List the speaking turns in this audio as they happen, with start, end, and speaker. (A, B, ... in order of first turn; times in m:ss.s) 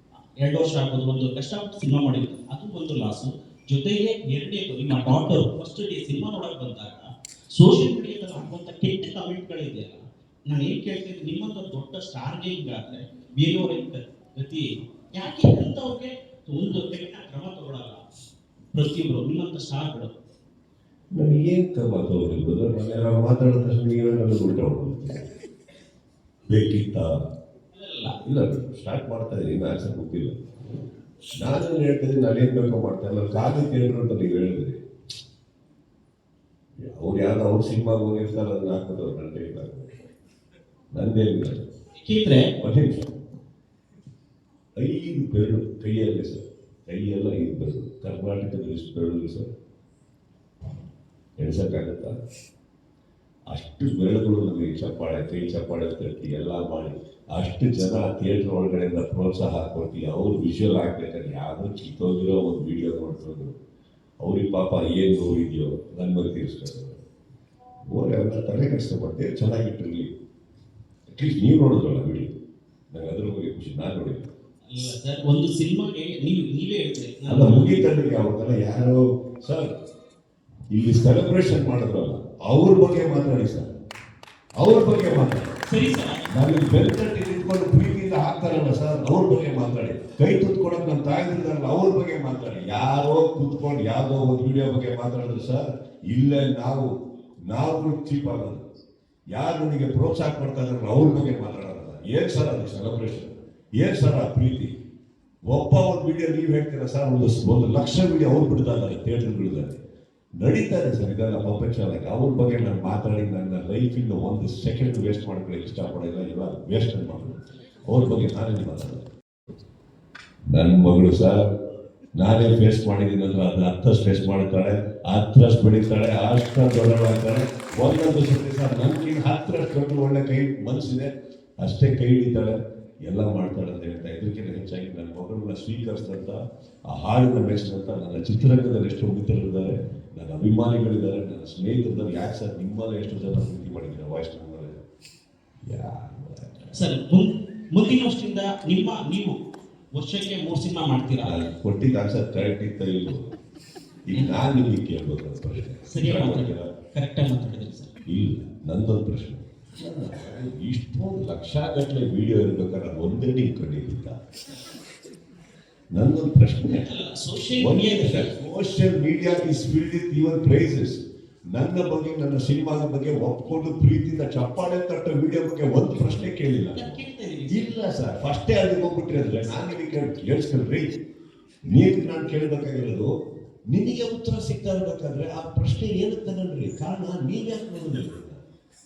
0:00.4-0:07.0 A
0:07.6-0:18.0 A
0:18.7-0:20.1 A
0:21.1-0:25.3 B
0:26.5-0:27.1 B
0:27.7-0:28.2 A
0:28.2-0:30.4 B
0:31.4-0:34.8 B
0:36.9-0:40.0 B
0:40.9-0:41.6 B
0:42.0-0:42.5 A
0:42.6-0:43.1 B
0:44.8-0:49.5 B
0:51.4-0:52.1 B
0:53.5-1:03.6 B
1:04.2-1:07.0 B
1:07.9-1:10.1 B
1:11.1-1:12.3 B
1:12.9-1:14.3 B
1:14.7-1:17.8 A
1:17.3-1:19.7 B
1:20.7-1:23.7 B
1:24.6-1:25.5 B
1:25.7-1:26.2 A
1:26.3-1:36.9 B
1:37.5-1:38.6 B
1:39.3-1:44.7 B
1:45.5-1:49.8 B
1:50.4-1:57.4 B
1:57.9-1:59.0 B
2:00.5-2:01.4 B
2:02.2-2:24.8 B
2:25.7-2:26.8 B
2:26.8-2:29.4 A
2:30.0-2:31.4 A
2:31.2-2:33.2 B
2:34.1-2:36.7 B
2:35.9-2:37.9 A
2:38.1-2:44.2 B
2:45.9-2:46.9 B
2:46.7-2:48.3 A
2:47.6-2:51.0 B
2:51.5-3:01.0 B
2:56.8-2:57.7 A
3:01.6-3:03.1 B
3:03.7-3:08.4 B